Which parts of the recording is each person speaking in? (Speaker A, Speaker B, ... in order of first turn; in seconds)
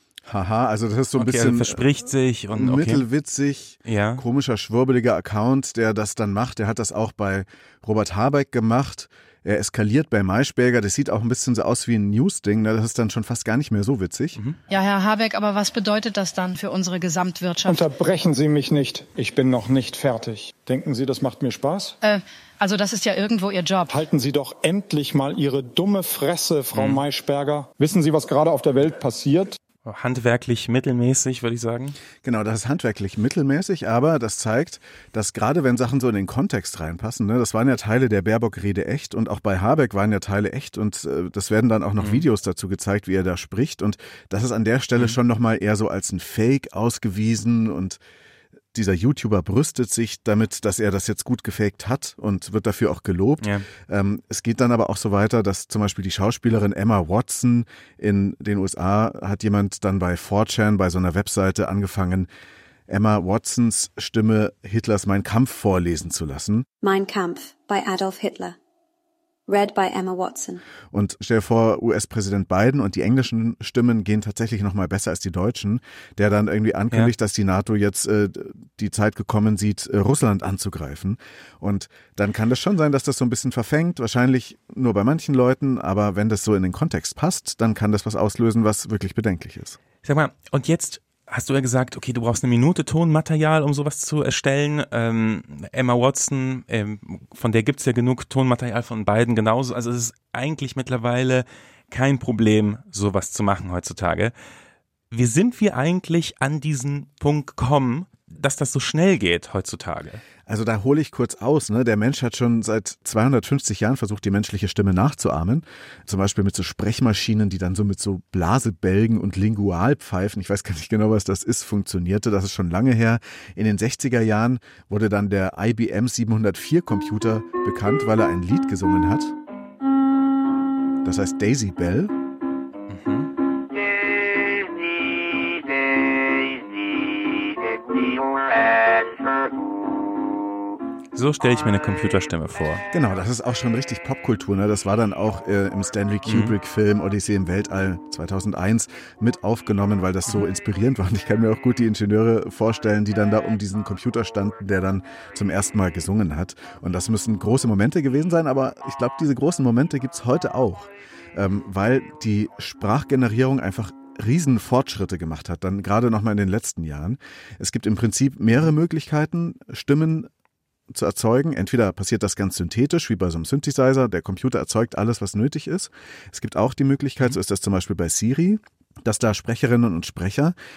Speaker A: 0.3-1.9, 2.5-14.4, 32.2-48.0, 48.7-62.3, 62.9-66.7, 70.9-89.8, 110.5-129.3, 131.0-132.1, 142.9-170.3, 170.9-180.6
Speaker B: 1.2-3.0, 3.9-4.2, 26.7-27.0, 29.9-32.0, 42.0-42.2, 53.4-53.7, 90.0-104.3, 105.1-110.2, 132.9-133.3, 141.2-142.8, 146.3-146.6
Speaker C: 14.7-17.8, 22.0-23.9
Speaker D: 17.6-22.0, 23.9-29.6
Speaker E: 66.8-68.6, 69.5-70.6